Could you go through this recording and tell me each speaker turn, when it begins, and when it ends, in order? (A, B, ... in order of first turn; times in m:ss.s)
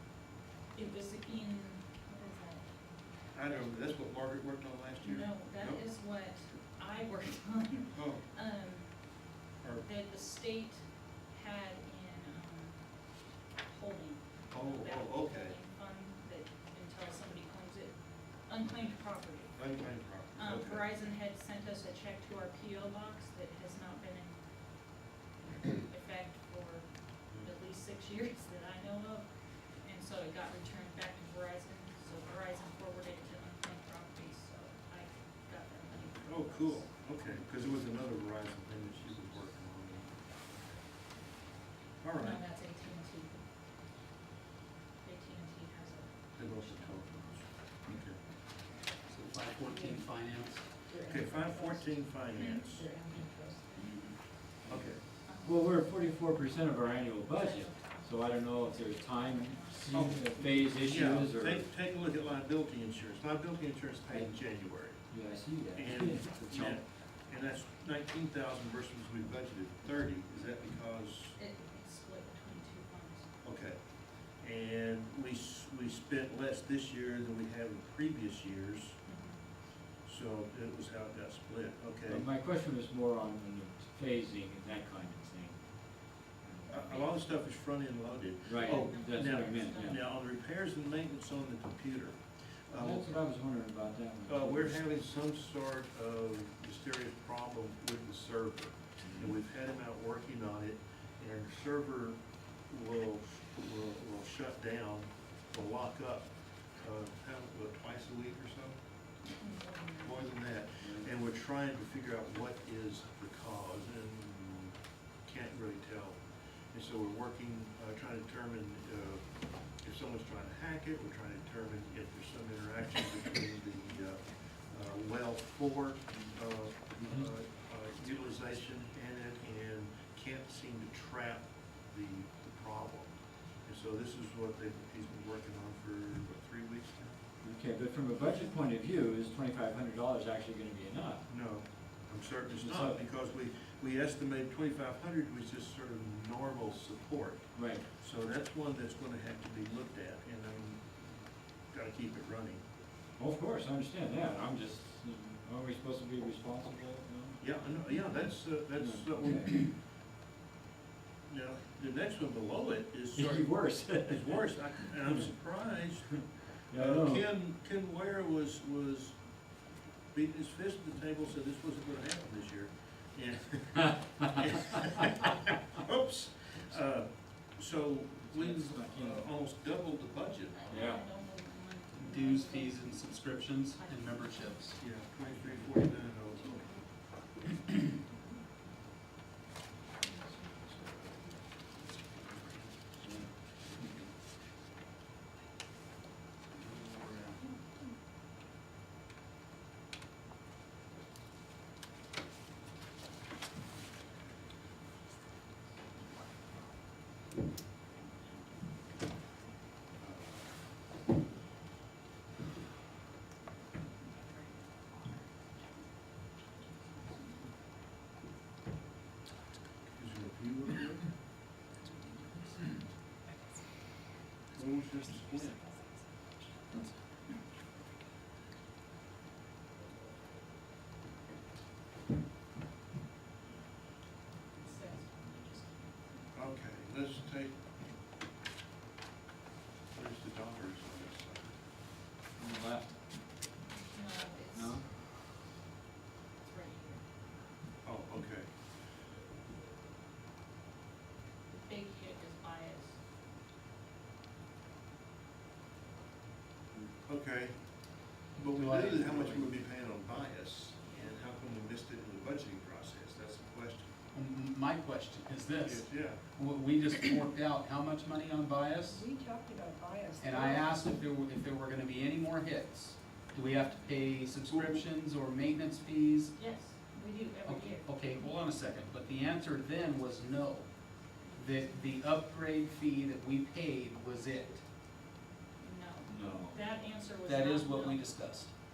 0:00.7-0:02.8 A
0:03.3-0:05.8 B
0:05.0-0:19.7 A
0:07.9-0:08.2 B
0:09.6-0:09.9 B
0:14.5-0:15.6 B
0:19.6-0:20.8 B
0:20.3-0:25.0 A
0:25.5-0:37.1 A
0:36.3-0:40.4 B
0:42.0-0:42.4 B
0:42.2-0:43.5 A
0:45.0-0:47.5 A
0:46.4-0:48.2 B
0:49.0-0:50.8 C
0:49.7-0:50.0 D
0:50.8-0:52.0 D
0:51.0-0:52.9 B
0:52.4-0:52.6 A
0:52.7-0:53.9 D
0:53.8-0:54.1 C
0:54.6-1:01.7 E
0:54.7-0:55.0 B
0:55.2-0:55.8 A
0:57.4-1:00.7 A
0:59.9-1:05.1 B
1:04.1-1:04.4 E
1:05.1-1:06.8 E
1:05.8-1:11.4 B
1:11.4-1:13.3 A
1:13.4-1:13.8 B
1:14.4-1:19.0 B
1:19.1-1:19.5 A
1:20.0-1:22.3 B
1:22.1-1:27.1 E
1:26.7-1:33.2 B
1:28.4-1:30.0 E
1:28.5-1:30.0 A
1:32.8-1:34.8 E
1:34.3-1:48.8 B
1:39.0-1:39.3 E
1:49.2-1:50.3 A
1:50.0-1:56.2 B
1:50.8-1:51.1 E
1:56.7-2:17.2 B
2:07.0-2:07.3 E
2:17.4-2:21.3 E
2:21.3-2:31.2 B
2:22.6-2:23.0 E
2:27.6-2:27.8 E
2:31.7-2:32.6 B
2:33.2-2:37.5 E
2:37.4-2:39.7 B
2:38.8-2:39.5 E
2:41.3-2:49.4 B
2:43.2-2:44.6 E
2:46.7-2:47.2 E
2:50.1-3:00.7 B
2:58.3-2:59.2 E
3:00.5-3:03.0 A
3:00.7-3:01.0 E
3:02.0-3:04.8 C
3:03.8-3:04.6 A
3:04.8-3:06.8 B
3:13.0-3:14.1 E
3:16.6-3:17.4 C
3:30.0-3:30.4 B
3:34.0-3:35.2 A
3:36.8-3:37.5 A
3:39.9-3:41.1 B
3:41.8-3:42.8 A
3:44.5-3:45.6 B
3:54.6-3:56.3 A
3:56.3-3:57.6 B
3:59.9-4:01.6 B
4:02.4-4:02.9 E
4:03.7-4:04.8 A
4:04.5-4:04.8 E
4:06.4-4:07.1 A
4:07.8-4:08.5 B
4:11.5-4:13.0 A
4:17.1-4:17.5 B
4:18.3-4:23.9 B
4:18.5-4:19.5 C
4:20.8-4:21.1 A
4:24.1-4:29.1 C
4:25.6-4:26.2 B
4:28.9-4:30.7 D
4:30.2-4:36.4 C
4:34.5-4:34.8 B
4:36.4-4:38.2 A
4:37.4-4:44.7 C
4:41.2-4:42.0 A
4:45.6-4:48.2 A
4:46.1-4:46.6 E
4:47.2-4:48.6 C